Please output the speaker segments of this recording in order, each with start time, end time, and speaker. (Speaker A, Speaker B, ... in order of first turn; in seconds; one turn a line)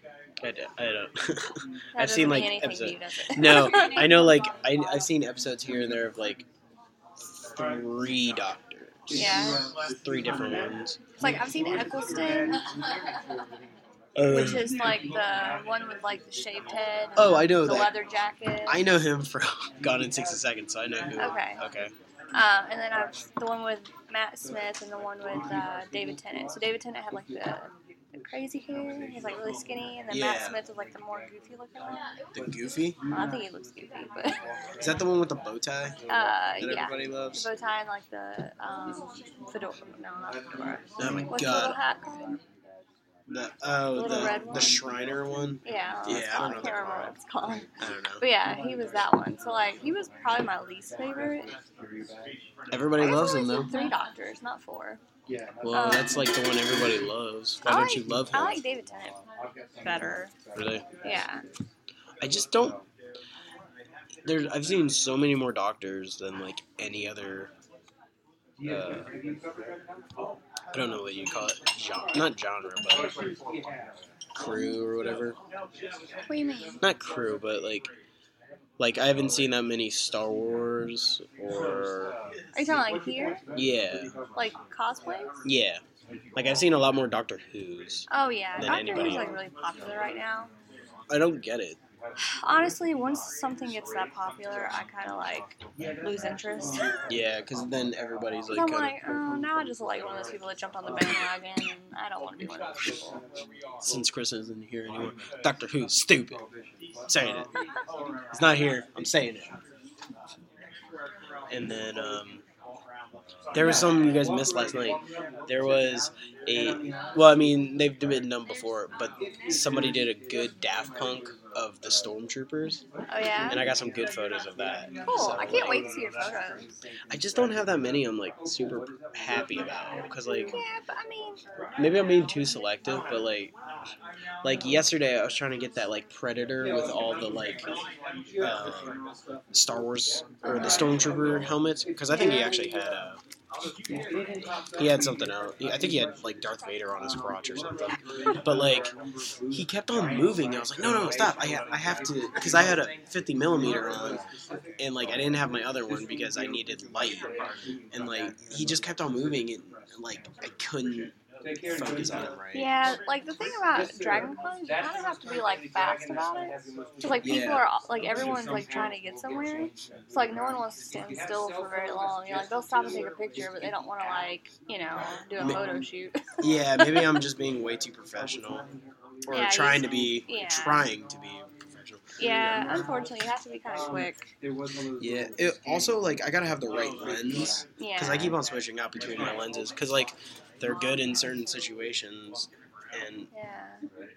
Speaker A: 0.4-6.4
Speaker B: 1.9-4.5
Speaker A: 7.5-11.0
Speaker B: 9.1-9.6
Speaker B: 11.2-12.6
Speaker A: 14.2-14.7
Speaker B: 14.3-18.8
Speaker A: 17.2-18.0
Speaker A: 18.7-21.9
Speaker B: 21.2-21.6
Speaker B: 22.3-32.0
Speaker A: 30.1-30.6
Speaker A: 32.3-33.0
Speaker B: 33.1-34.4
Speaker A: 34.8-36.0
Speaker B: 36.1-42.4
Speaker A: 36.6-37.5
Speaker A: 41.0-41.8
Speaker A: 43.3-47.1
Speaker B: 43.9-44.8
Speaker B: 45.6-51.5
Speaker A: 47.8-48.2
Speaker A: 52.7-53.7
Speaker B: 53.0-55.0
Speaker A: 55.6-58.6
Speaker B: 55.7-56.3
Speaker B: 57.6-59.2
Speaker B: 59.8-60.3
Speaker A: 60.5-60.8
Speaker B: 61.0-61.4
Speaker A: 62.2-62.8
Speaker A: 64.2-67.5
Speaker A: 68.7-69.1
Speaker A: 70.7-73.3
Speaker A: 74.3-75.4
Speaker B: 76.3-76.8
Speaker A: 76.8-77.9
Speaker A: 78.8-82.1
Speaker B: 82.5-83.4
Speaker A: 83.5-84.1
Speaker B: 84.3-85.3
Speaker A: 85.4-85.8
Speaker A: 86.3-88.0
Speaker B: 88.1-90.5
Speaker A: 88.6-89.4
Speaker A: 91.1-91.8
Speaker B: 92.2-96.9
Speaker A: 97.1-98.9
Speaker B: 98.5-103.2
Speaker A: 103.8-106.4
Speaker A: 107.1-107.5
Speaker A: 108.3-109.5
Speaker A: 111.5-112.4
Speaker A: 113.5-122.8
Speaker B: 123.1-123.6
Speaker A: 123.5-125.9
Speaker B: 125.0-126.7
Speaker A: 127.1-130.6
Speaker B: 130.5-131.4
Speaker A: 131.8-133.5
Speaker A: 134.4-137.7
Speaker A: 138.4-138.9
Speaker A: 139.5-143.2
Speaker B: 140.4-140.9
Speaker B: 142.1-142.5
Speaker A: 144.8-148.9
Speaker A: 149.5-154.2
Speaker A: 154.8-157.3
Speaker A: 157.9-161.1
Speaker A: 161.7-162.7
Speaker B: 162.5-177.0
Speaker A: 167.2-167.6
Speaker A: 176.4-178.7
Speaker A: 179.3-182.0
Speaker B: 179.3-180.8
Speaker B: 182.2-184.3
Speaker A: 185.0-193.3
Speaker B: 187.8-188.3
Speaker B: 193.3-193.8